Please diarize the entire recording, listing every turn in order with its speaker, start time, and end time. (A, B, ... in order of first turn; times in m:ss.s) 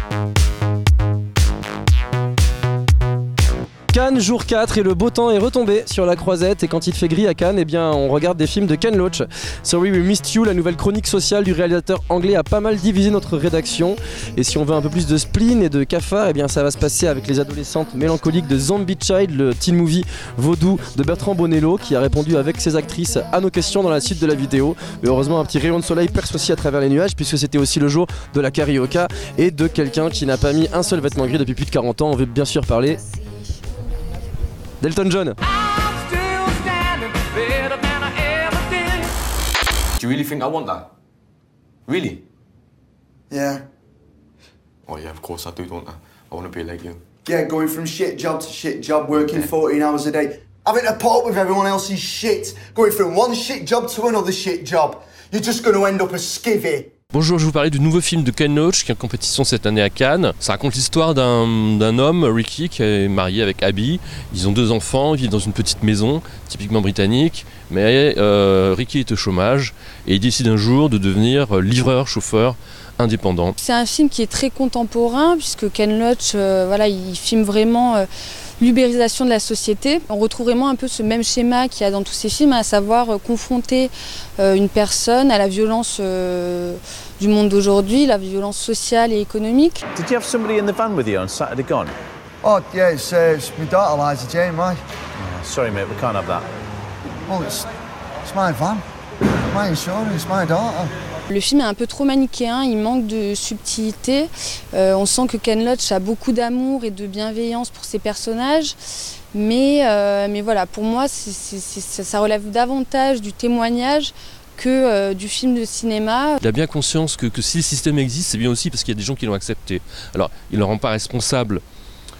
0:03.9-0:33.0 A
0:34.8-0:35.4 A
0:40.0-0:40.9 B
0:41.9-0:42.2 B
0:43.3-0:43.6 C
0:44.9-0:47.0 B
0:47.2-0:56.9 C
0:49.1-0:49.5 B
0:57.1-1:13.5 D
1:13.6-1:18.1 E
1:18.6-1:29.8 E
1:29.9-1:31.9 F
1:32.4-1:34.8 C
1:35.2-1:36.4 F
1:37.3-1:37.7 C
1:38.2-1:38.8 C
1:39.5-1:40.9 C
1:41.3-1:48.8 E
1:49.3-1:56.4 E
1:56.4-2:01.6 D